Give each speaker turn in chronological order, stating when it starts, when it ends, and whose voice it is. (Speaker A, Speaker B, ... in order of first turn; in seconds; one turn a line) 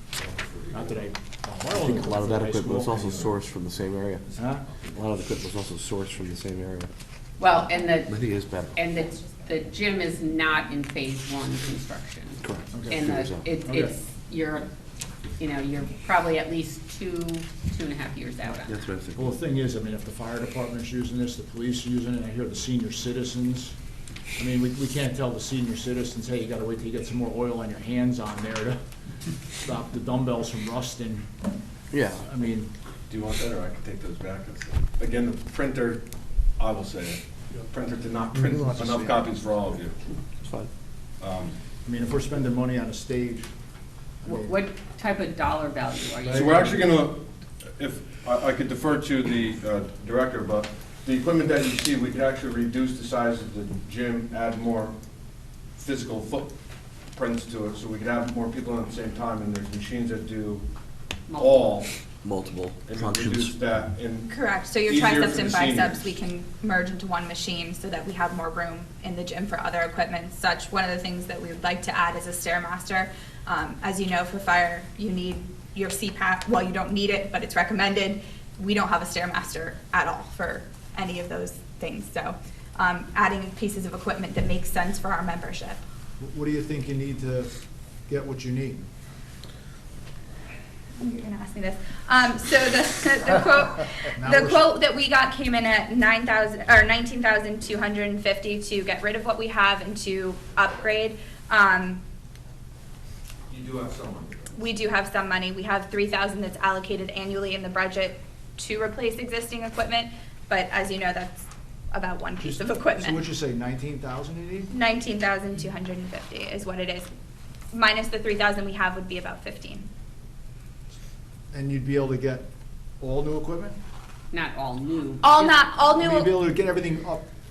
Speaker A: 0.2-0.9
Speaker B: 0.7-3.3
Speaker C: 1.8-4.2
Speaker B: 4.4-4.7
Speaker C: 4.9-6.9
Speaker D: 7.4-8.2
Speaker C: 8.1-8.8
Speaker D: 8.7-14.7
Speaker C: 12.4-13.4
Speaker B: 12.7-13.1
Speaker B: 13.6-13.9
Speaker D: 15.4-18.8
Speaker C: 18.6-19.3
Speaker B: 19.1-23.8
Speaker B: 24.4-28.8
Speaker B: 29.6-31.3
Speaker C: 31.9-32.2
Speaker B: 32.1-32.7
Speaker A: 33.1-36.0
Speaker A: 36.6-40.0
Speaker C: 38.4-38.8
Speaker C: 40.4-40.7
Speaker A: 41.2-41.6
Speaker B: 41.8-43.5
Speaker B: 44.2-44.6
Speaker D: 44.2-46.9
Speaker A: 46.2-47.2
Speaker A: 47.8-55.0
Speaker A: 55.8-56.5
Speaker A: 57.1-60.6
Speaker D: 61.3-61.8
Speaker A: 61.3-61.9
Speaker C: 62.2-63.5
Speaker A: 62.9-66.0
Speaker E: 64.3-85.8
Speaker B: 86.2-87.5
Speaker B: 88.1-88.9
Speaker E: 91.0-102.0
Speaker B: 94.2-94.7
Speaker A: 103.5-104.7
Speaker E: 104.6-113.3
Speaker B: 112.4-114.7
Speaker E: 114.7-117.1
Speaker E: 117.7-119.9
Speaker B: 121.5-122.5
Speaker B: 123.0-123.8
Speaker D: 124.3-125.9
Speaker E: 125.2-126.3
Speaker B: 126.0-127.2